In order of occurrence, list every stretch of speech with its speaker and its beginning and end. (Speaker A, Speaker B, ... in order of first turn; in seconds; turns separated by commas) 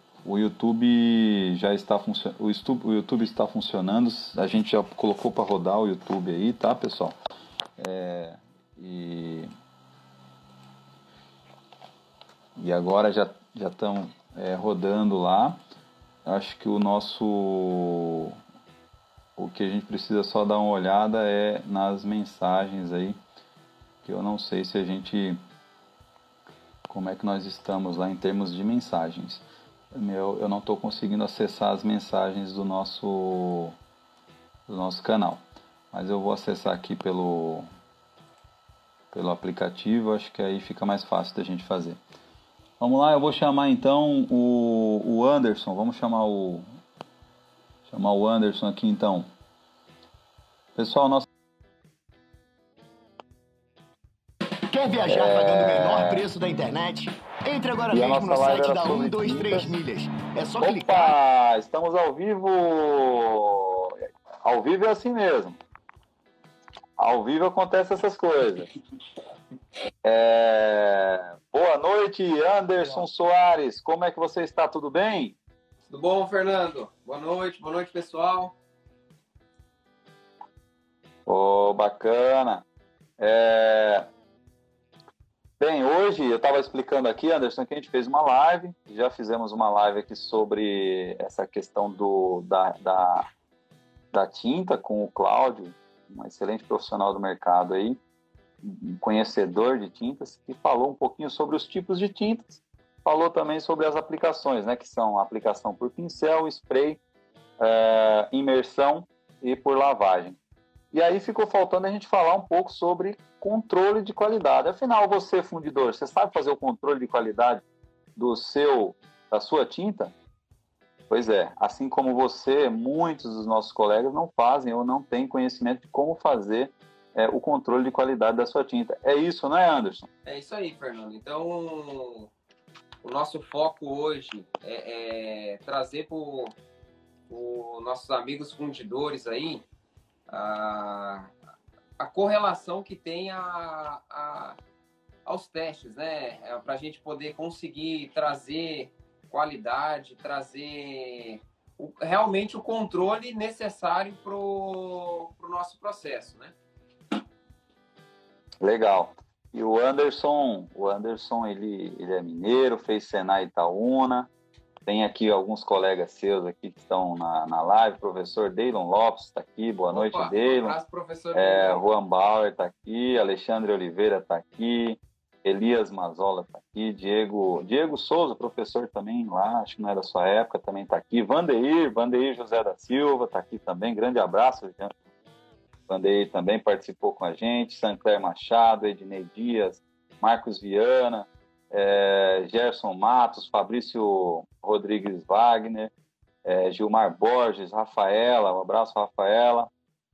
Speaker A: 0.2-7.2, Speaker A: 7.8-9.5, Speaker A: 12.6-15.6, Speaker A: 16.2-18.4, Speaker A: 19.4-23.2, Speaker A: 24.0-25.4, Speaker A: 26.9-33.7, Speaker A: 34.7-37.6, Speaker A: 39.1-42.0, Speaker A: 42.8-46.6, Speaker A: 47.9-49.3, Speaker A: 50.8-51.3, Speaker B: 54.7-61.1, Speaker A: 55.1-56.3, Speaker A: 57.9-59.8, Speaker A: 60.6-65.6, Speaker A: 67.0-68.7, Speaker A: 70.0-75.3, Speaker C: 75.9-78.5, Speaker A: 81.2-82.6, Speaker A: 83.2-84.1, Speaker A: 85.6-93.3, Speaker A: 94.1-98.0, Speaker A: 98.6-107.0, Speaker A: 107.6-110.4, Speaker A: 110.9-117.6, Speaker A: 118.2-120.1, Speaker A: 121.1-130.1, Speaker C: 130.2-132.3, Speaker C: 133.0-136.5, Speaker C: 137.3-139.6, Speaker C: 140.3-141.3, Speaker C: 142.0-144.6, Speaker C: 145.2-156.5, Speaker A: 158.6-164.3, Speaker A: 164.8-170.8, Speaker C: 169.9-171.8, Speaker A: 171.3-184.9, Speaker A: 185.9-195.9, Speaker A: 196.4-199.7